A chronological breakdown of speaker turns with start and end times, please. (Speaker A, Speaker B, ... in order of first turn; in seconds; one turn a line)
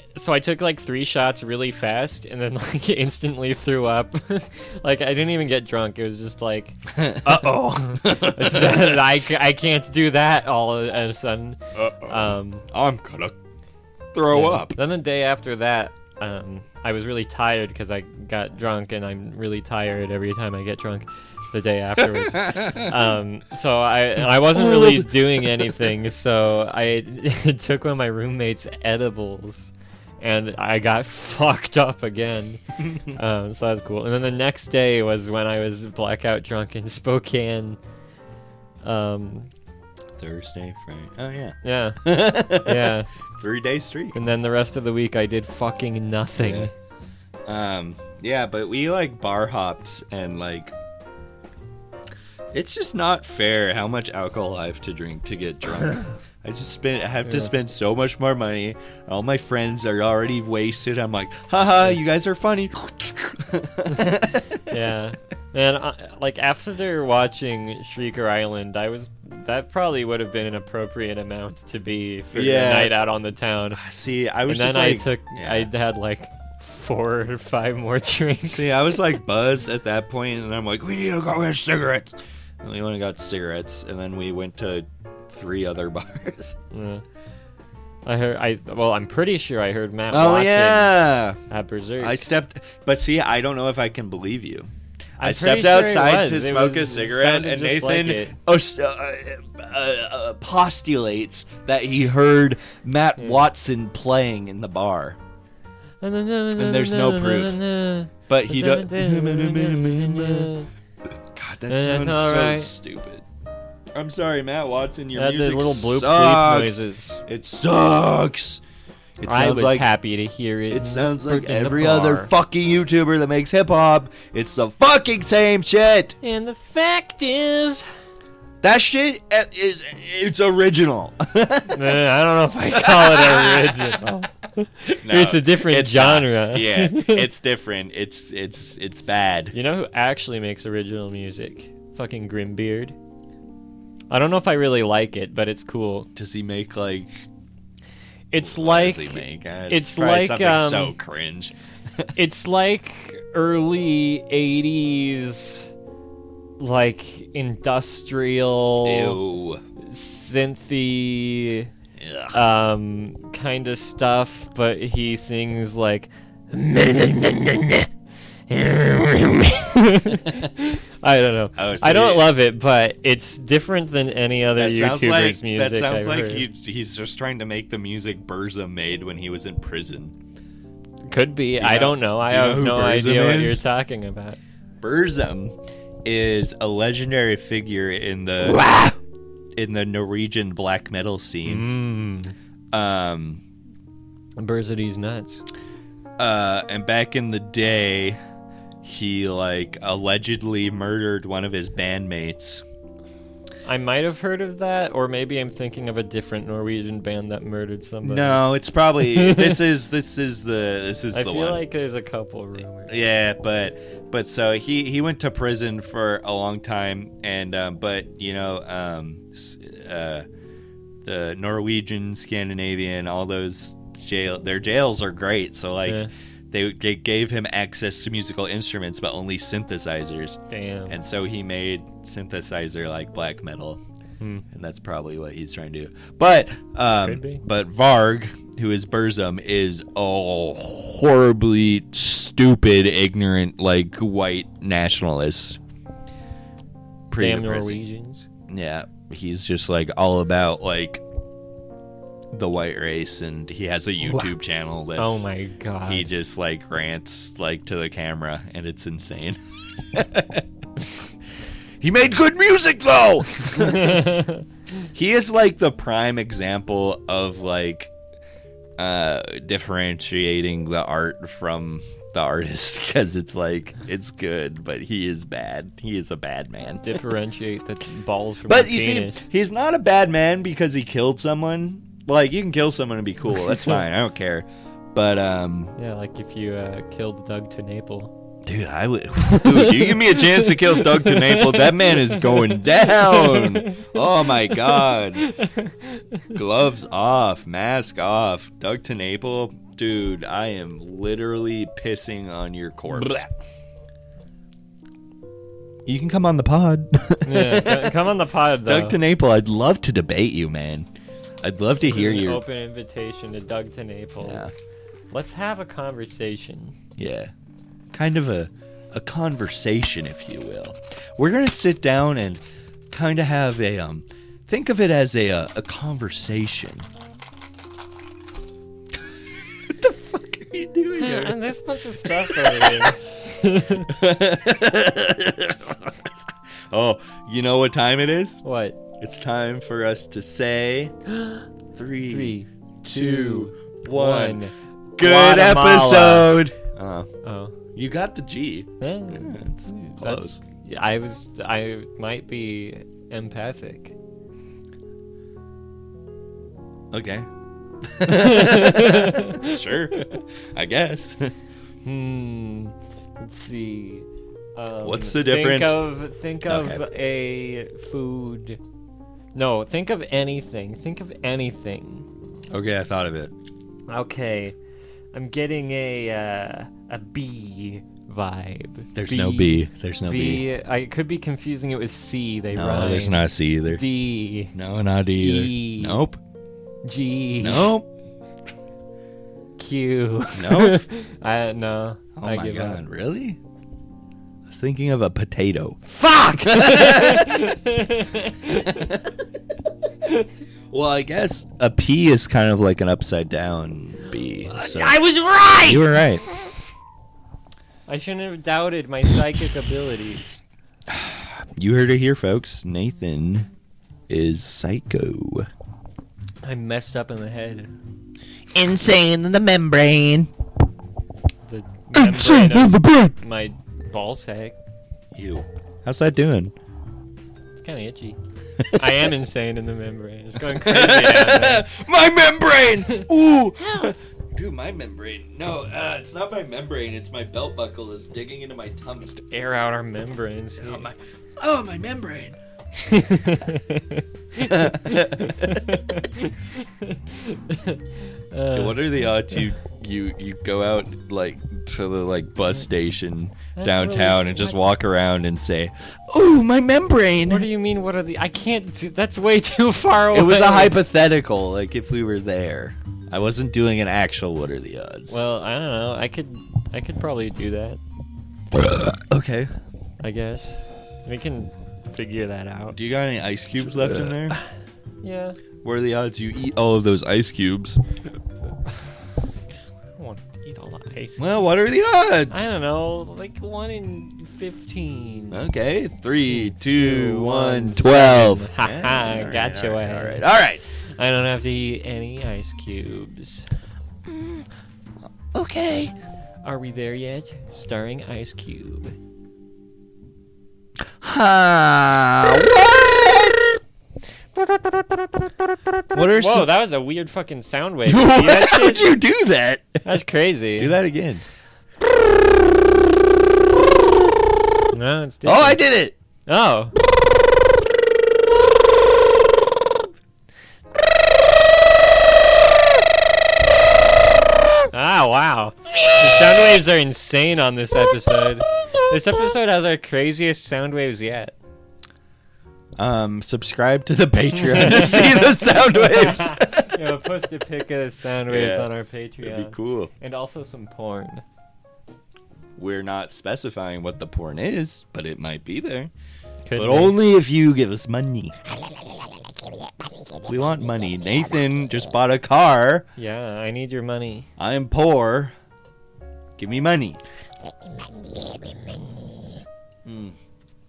Speaker A: 0.1-12.7
Speaker B: 6.9-9.0
Speaker B: 11.7-13.4
Speaker B: 14.1-14.8
Speaker A: 14.3-37.8
Speaker B: 22.0-23.1
Speaker B: 24.2-25.9
Speaker B: 32.9-33.1
Speaker A: 38.8-39.5
Speaker B: 40.2-44.2
Speaker A: 41.6-43.1
Speaker A: 44.1-46.7
Speaker B: 46.4-46.7
Speaker B: 47.5-50.8
Speaker B: 52.5-64.5
Speaker A: 57.2-57.5
Speaker A: 64.7-73.8
Speaker B: 72.3-72.9
Speaker B: 73.8-75.7
Speaker A: 74.5-78.8
Speaker B: 78.5-86.6
Speaker A: 86.7-87.0
Speaker A: 88.0-92.3
Speaker B: 90.1-91.4
Speaker B: 92.0-94.7
Speaker A: 95.2-98.3
Speaker B: 95.2-105.2
Speaker A: 103.2-103.4
Speaker A: 106.0-110.7
Speaker B: 106.5-107.6
Speaker B: 108.3-110.5
Speaker B: 111.3-113.2
Speaker A: 111.7-112.7
Speaker B: 113.9-118.6
Speaker A: 115.2-117.2
Speaker B: 119.2-119.9
Speaker A: 119.3-122.3
Speaker B: 120.7-126.2
Speaker A: 126.2-127.9
Speaker B: 128.6-132.0
Speaker A: 131.7-137.3
Speaker B: 132.8-133.8
Speaker B: 135.0-139.6
Speaker A: 139.5-143.0
Speaker A: 144.1-146.1
Speaker B: 146.2-147.2
Speaker A: 148.3-151.0
Speaker B: 148.4-152.1
Speaker A: 152.2-155.7
Speaker A: 156.6-159.2
Speaker B: 158.8-159.6
Speaker A: 159.8-161.7
Speaker B: 162.0-162.4
Speaker A: 162.3-167.9
Speaker A: 168.5-176.5
Speaker B: 171.6-172.4
Speaker B: 174.6-180.2
Speaker A: 181.1-184.4
Speaker B: 181.6-183.6
Speaker B: 184.8-188.7
Speaker A: 188.4-189.0
Speaker B: 189.6-191.7
Speaker A: 191.4-192.3
Speaker B: 192.7-193.4
Speaker A: 194.4-195.4
Speaker B: 196.2-198.2
Speaker B: 198.8-202.6
Speaker A: 203.7-208.4
Speaker B: 208.0-211.6
Speaker A: 209.1-209.6
Speaker A: 211.1-212.9
Speaker B: 212.9-220.3
Speaker B: 221.1-233.8
Speaker A: 225.9-226.1
Speaker A: 230.5-231.0
Speaker A: 234.2-234.4
Speaker B: 234.5-245.6
Speaker A: 236.9-237.4
Speaker B: 247.1-247.8
Speaker A: 247.2-248.3
Speaker B: 248.5-251.0
Speaker B: 252.3-255.3
Speaker A: 254.0-254.3
Speaker A: 255.0-256.1
Speaker B: 255.8-260.4
Speaker B: 261.8-264.1
Speaker A: 263.6-264.4
Speaker B: 264.9-267.9
Speaker B: 268.8-277.0
Speaker A: 276.8-279.3
Speaker B: 278.5-285.8
Speaker A: 285.8-288.1
Speaker B: 288.4-295.3
Speaker A: 289.4-293.9
Speaker A: 294.5-296.2
Speaker B: 296.3-303.3
Speaker B: 305.9-308.0
Speaker A: 307.2-309.0
Speaker B: 308.7-310.9
Speaker B: 311.4-312.4
Speaker A: 311.9-314.5
Speaker B: 314.2-314.5
Speaker A: 315.1-316.8
Speaker B: 317.0-317.3
Speaker B: 317.9-326.9
Speaker B: 329.7-331.4
Speaker A: 331.0-333.9
Speaker B: 332.0-333.0
Speaker B: 333.9-336.0
Speaker B: 336.7-338.4
Speaker A: 338.4-338.8
Speaker B: 339.0-340.9
Speaker A: 341.1-341.4
Speaker B: 341.7-344.4
Speaker A: 342.1-346.3
Speaker B: 345.0-347.1
Speaker A: 347.2-347.6
Speaker B: 347.7-350.4
Speaker A: 348.8-353.9
Speaker B: 356.9-357.3
Speaker B: 357.8-361.3
Speaker A: 358.1-359.6
Speaker A: 361.9-368.6
Speaker B: 364.8-365.8
Speaker B: 366.5-366.8
Speaker A: 369.4-372.1
Speaker B: 372.5-373.3
Speaker A: 373.9-374.6
Speaker A: 375.1-384.5
Speaker B: 378.9-380.4
Speaker B: 382.5-383.8
Speaker B: 384.4-386.2
Speaker A: 385.2-386.0
Speaker A: 386.9-387.7
Speaker B: 387.4-387.9
Speaker A: 389.6-392.8
Speaker B: 390.4-390.8
Speaker B: 392.2-393.4
Speaker B: 394.5-397.6
Speaker A: 395.9-398.9
Speaker B: 398.5-399.1
Speaker B: 400.7-405.0
Speaker A: 404.5-405.9
Speaker B: 405.6-406.2
Speaker A: 407.9-410.4
Speaker B: 410.9-413.5
Speaker B: 414.1-415.5
Speaker A: 416.4-417.7
Speaker B: 418.5-420.3
Speaker A: 421.5-424.6
Speaker B: 421.9-423.1
Speaker B: 425.1-426.5
Speaker A: 427.6-428.2
Speaker B: 428.6-429.1
Speaker A: 428.7-431.7
Speaker B: 430.5-439.2
Speaker A: 439.1-440.9
Speaker B: 440.6-442.4
Speaker A: 442.8-449.4
Speaker B: 444.4-445.6
Speaker B: 448.5-457.5
Speaker A: 453.6-454.6
Speaker A: 457.3-460.8
Speaker B: 460.1-465.2
Speaker A: 465.1-467.8
Speaker B: 468.5-469.5
Speaker A: 470.0-472.8
Speaker B: 472.7-474.4
Speaker A: 475.0-475.4
Speaker B: 475.6-477.8
Speaker A: 480.0-481.3
Speaker B: 481.2-482.6
Speaker A: 482.3-485.4
Speaker B: 485.3-490.6
Speaker A: 486.3-490.3
Speaker A: 491.0-493.5
Speaker B: 494.1-494.4
Speaker B: 495.3-495.9
Speaker A: 496.4-499.0
Speaker B: 501.0-503.6
Speaker B: 505.9-506.5
Speaker A: 505.9-508.9
Speaker B: 507.9-509.8
Speaker A: 509.8-510.8
Speaker B: 510.6-511.2
Speaker A: 514.7-515.6
Speaker B: 515.2-516.0
Speaker A: 516.3-516.7
Speaker A: 524.7-531.4
Speaker B: 532.8-536.8
Speaker A: 534.3-541.2
Speaker B: 538.3-539.9
Speaker B: 542.6-545.9
Speaker A: 546.5-547.0
Speaker B: 546.6-548.4
Speaker B: 550.2-552.9
Speaker A: 553.0-554.3
Speaker B: 554.4-555.4
Speaker B: 556.4-557.0
Speaker B: 559.9-560.2